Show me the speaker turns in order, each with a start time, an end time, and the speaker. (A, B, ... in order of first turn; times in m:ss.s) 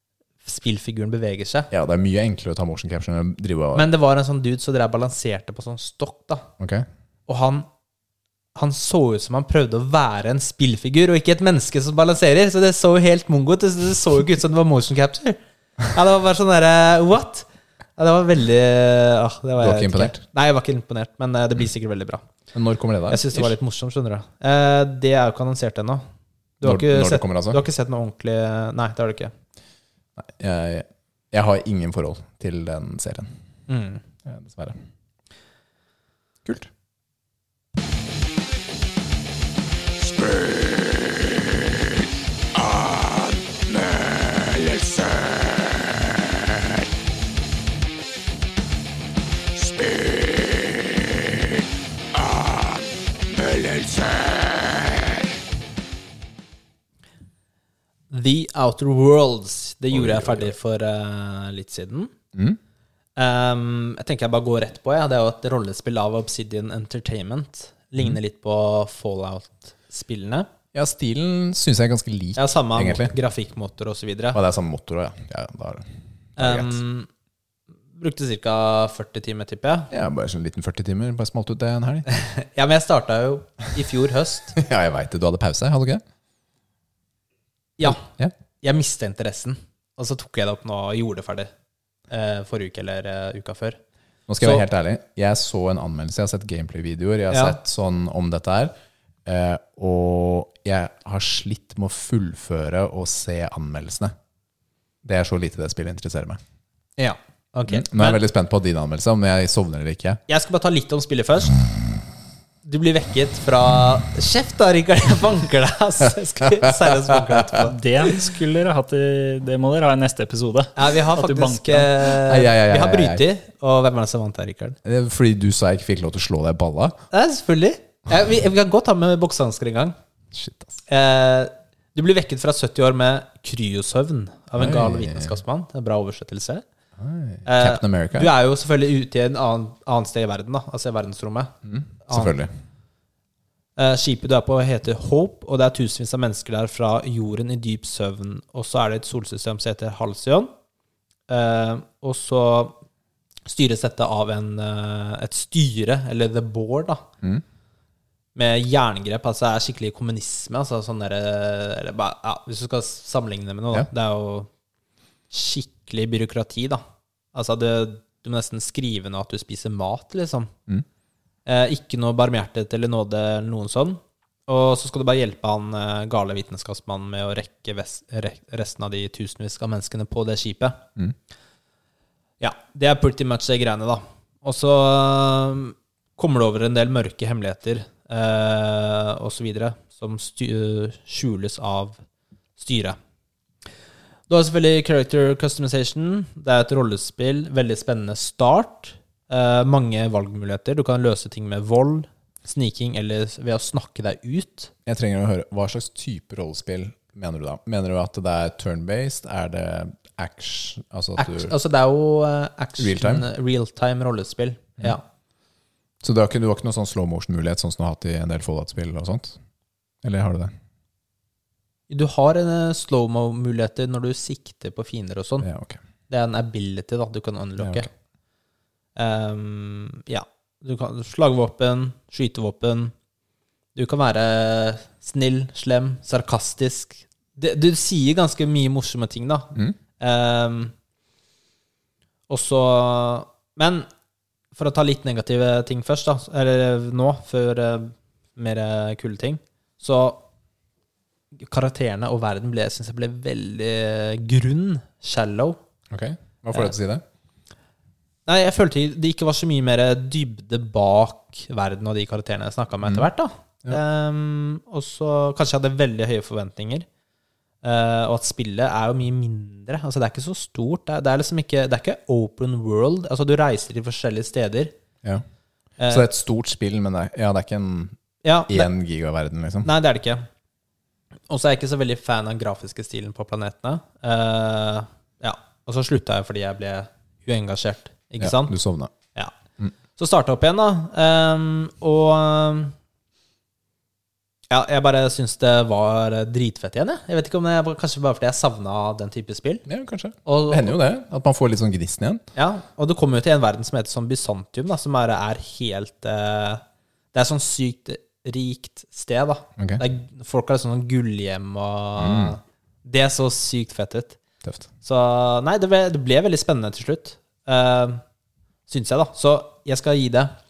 0:00.4-0:01.7 A
0:01.7-0:03.9 B
0:03.7-0:06.5 A
0:06.6-0:06.9 B
0:07.3-0:07.7 A
0:08.5-0:22.2 A
0:19.6-0:20.2 B
0:22.5-0:23.5 B
0:23.1-0:26.0 A
0:26.6-0:29.3 A
0:26.6-0:27.6 B
0:30.2-0:33.3 B
0:33.7-0:34.0 A
0:34.2-0:34.8 B
0:36.4-0:36.7 B
0:40.0-0:41.4 B
0:42.7-0:43.1 B
0:43.7-0:45.3 B
0:53.5-0:54.0 B
0:58.1-1:02.1 A
0:59.9-1:00.5 B
1:02.3-1:02.6 B
1:03.2-1:10.5 A
1:10.7-1:13.1 B
1:12.4-1:14.4 A
1:14.3-1:16.8 B
1:16.4-1:17.1 A
1:18.0-1:19.9 A
1:19.9-1:22.0 B
1:22.1-1:24.6 A
1:24.6-1:26.0 B
1:27.8-1:28.1 A
1:27.8-1:28.3 B
1:28.6-1:31.5 A
1:32.1-1:33.8 A
1:34.3-1:38.7 B
1:34.4-1:34.6 A
1:37.3-1:37.6 A
1:39.2-1:44.1 B
1:45.0-1:46.4 B
1:47.0-1:48.2 A
1:47.7-1:50.2 B
1:50.3-1:51.6 A
1:52.6-1:57.8 A
1:57.1-1:57.4 B
1:57.6-2:02.0 C
2:00.8-2:04.8 A
2:02.2-2:03.2 B
2:04.8-2:07.0 B
2:07.1-2:09.9 A
2:10.3-2:10.8 B
2:10.9-2:16.6 A
2:14.6-2:15.4 B
2:17.0-2:18.3 B
2:17.4-2:21.5 A
2:21.6-2:22.5 B
2:22.0-2:22.3 A
2:23.8-2:30.5 A
2:31.3-2:32.8 A
2:33.4-2:37.0 A
2:38.3-2:44.5 A
2:45.3-2:46.8 A
2:47.3-2:50.5 A
2:51.4-3:00.8 A
3:02.4-3:12.0 A
3:12.6-3:13.0 A
3:14.3-3:24.7 A
3:24.8-3:31.5 B
3:31.2-3:35.0 A
3:32.8-3:33.2 B
3:36.0-3:39.4 B
3:40.0-3:40.5 B
3:41.9-3:45.5 A
3:45.4-3:45.8 B
3:46.1-3:47.9 A
3:47.6-3:47.9 B
3:49.0-3:52.9 A
3:53.7-4:00.7 A
4:02.3-4:03.9 A
4:04.5-4:10.2 A
4:11.4-4:15.6 A
4:15.9-4:17.0 B
4:18.3-4:26.8 A
4:27.6-4:34.7 A
4:35.8-4:36.1 A
4:35.9-4:38.0 B
4:38.2-4:38.7 A
4:38.5-4:39.7 B
4:39.6-4:40.2 A
4:41.3-4:48.5 A
4:48.2-4:48.9 B
4:50.0-4:52.7 A
4:54.5-4:59.6 A
4:59.6-5:02.2 B
5:00.2-5:00.8 A
5:02.3-5:14.2 A
5:09.6-5:09.8 B
5:12.0-5:12.4 B
5:14.8-5:18.0 A
5:18.7-5:20.3 A